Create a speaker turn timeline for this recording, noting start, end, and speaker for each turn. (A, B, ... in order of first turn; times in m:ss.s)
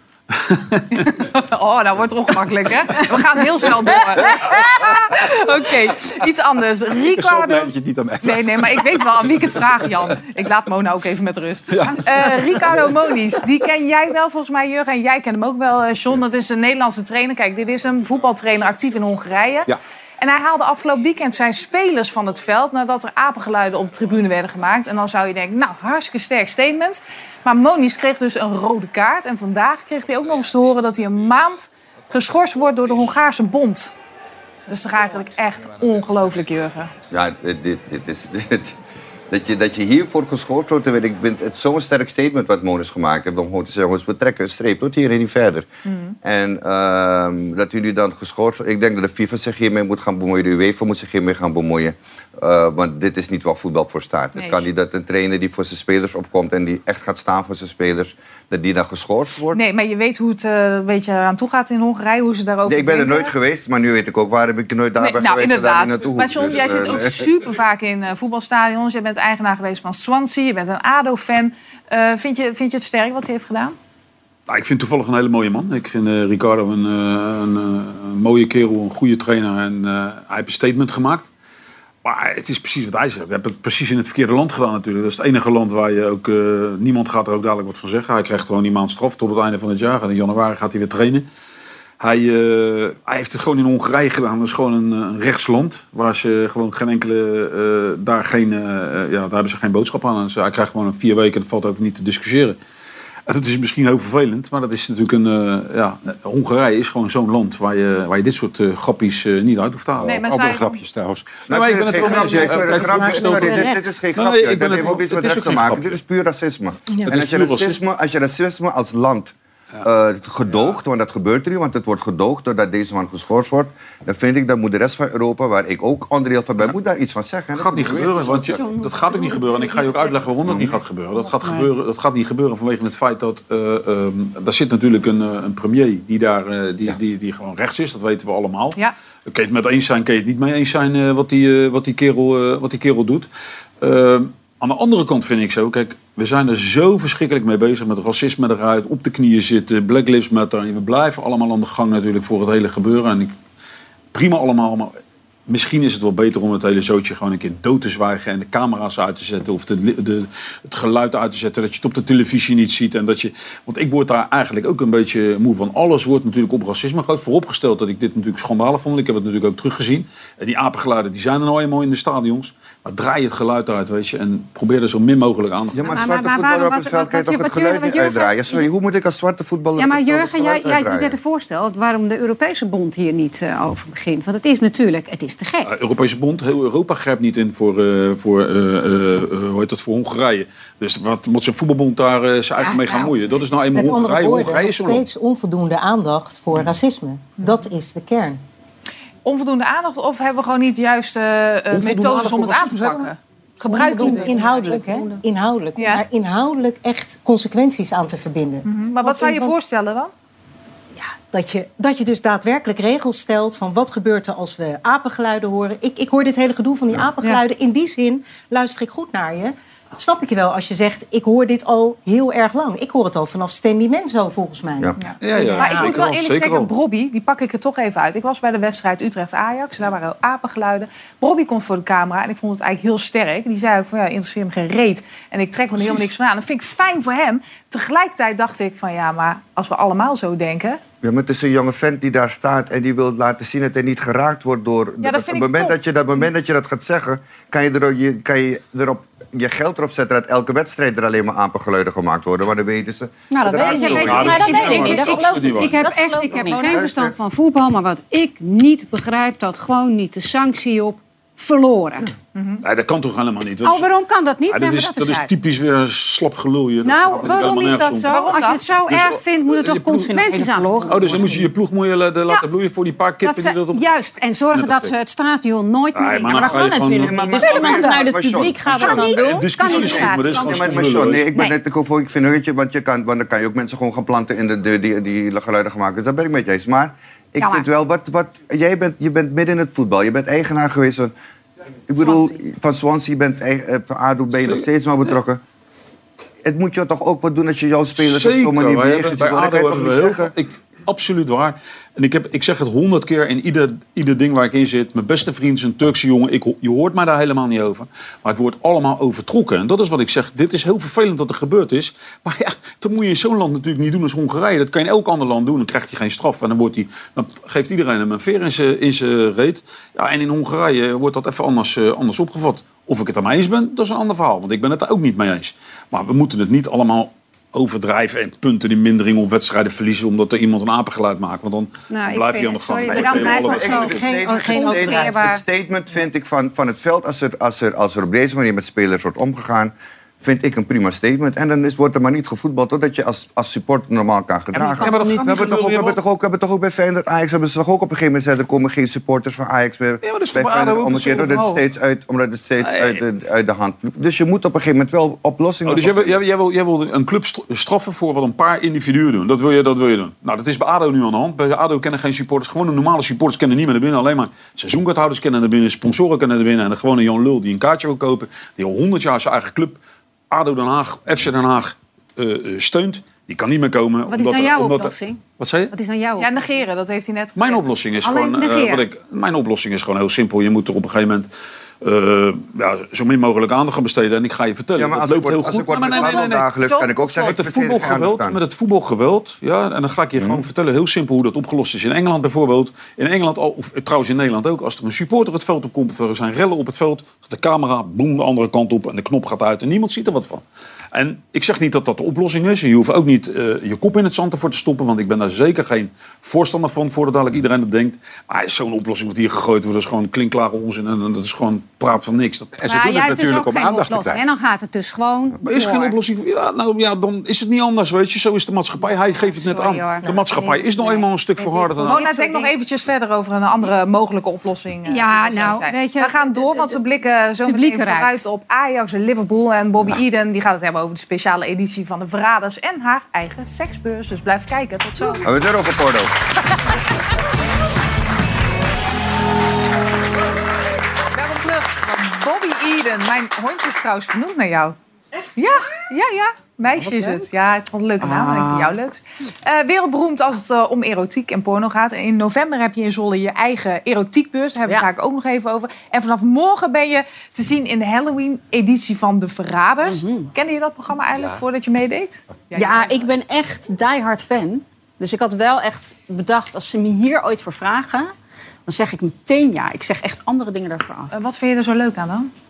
0:00.3-0:00.8 A
0:00.9-0:33.9 B
0:04.1-0:04.6 C
0:07.1-0:10.0 D
0:11.7-0:13.0 D
0:34.7-0:36.9 B
0:37.1-0:38.8 E
0:39.3-0:45.7 E
0:45.9-0:46.2 B
0:46.2-0:59.6 E
0:54.4-0:54.7 B
0:59.5-1:03.3 B
1:02.6-1:07.3 E
1:05.0-1:13.8 B
1:06.6-1:07.1 D
1:14.5-1:21.3 A
1:22.0-1:31.3 A
1:32.0-1:42.6 A
1:43.3-1:50.1 A
1:49.9-1:51.5 D
1:50.0-1:50.8 B
1:51.5-2:08.6 E
1:51.5-1:56.0 A
1:52.0-1:53.9 F
1:57.1-1:57.8 A
2:00.5-2:00.8 A
2:07.6-2:23.3 A
2:08.0-2:11.7 G
2:23.8-2:33.3 A
2:34.1-2:34.9 A
2:35.5-2:55.9 A
2:55.8-3:01.2 E
2:55.8-2:58.7 G
2:59.8-3:05.7 G
3:05.6-3:15.0 A
3:12.6-3:13.1 G
3:13.8-3:18.4 F
3:19.2-3:24.5 B
3:21.7-3:23.1 A
3:23.6-3:29.5 F
3:23.8-3:24.9 G
3:23.9-3:24.5 C
3:25.8-3:26.0 B
3:28.6-3:30.1 B
3:31.0-3:46.0 F
3:45.0-4:00.8 B
3:45.2-3:46.7 A
4:01.0-4:14.5 E
4:05.0-4:05.8 B
4:13.3-4:16.0 C
4:13.4-4:22.1 G
4:13.9-4:16.0 A
4:15.9-4:16.8 B
4:16.5-4:17.2 E
4:22.4-4:22.6 B
4:22.6-4:23.9 A
4:23.6-4:25.3 G
4:24.5-4:28.3 A
4:26.8-4:31.5 G
4:28.1-4:28.6 B
4:28.9-4:33.9 A
4:33.2-4:41.5 G
4:34.5-4:35.0 A
4:35.9-4:37.8 A
4:37.0-4:51.1 E
4:37.4-4:38.0 C
4:38.8-4:41.3 A
4:47.4-4:47.6 G
4:51.9-4:55.4 E
4:51.9-4:52.4 B
4:56.4-5:00.3 E
4:58.0-5:34.0 A
5:31.9-5:35.4 G
5:32.9-5:56.2 E
5:33.4-5:35.1 F
5:44.6-5:45.1 B
5:44.8-5:46.0 A
5:50.0-5:51.6 A
5:52.6-5:53.0 A
5:55.6-6:09.8 A
6:10.3-6:15.7 A
6:14.1-6:16.5 G
6:16.2-6:17.8 B
6:17.4-6:21.3 A
6:18.0-6:18.9 G
6:21.8-6:26.5 A
6:24.8-6:28.4 E
6:25.9-6:27.4 B
6:27.2-6:40.4 A
6:30.2-6:30.4 E
6:40.9-6:52.5 A
6:52.6-6:54.2 D
6:52.6-6:56.0 G
6:55.4-7:02.1 A
6:59.1-7:02.5 G
7:01.9-7:15.3 B
7:04.9-7:06.8 G
7:07.4-7:08.2 G
7:15.2-7:16.1 E
7:21.1-7:24.8 B
7:25.4-7:43.1 B
7:26.8-7:27.3 C
7:28.0-7:28.7 C
7:39.8-7:40.3 C
7:41.1-7:41.4 D
7:42.5-7:48.1 C
7:48.6-7:51.1 C
7:51.1-7:52.3 B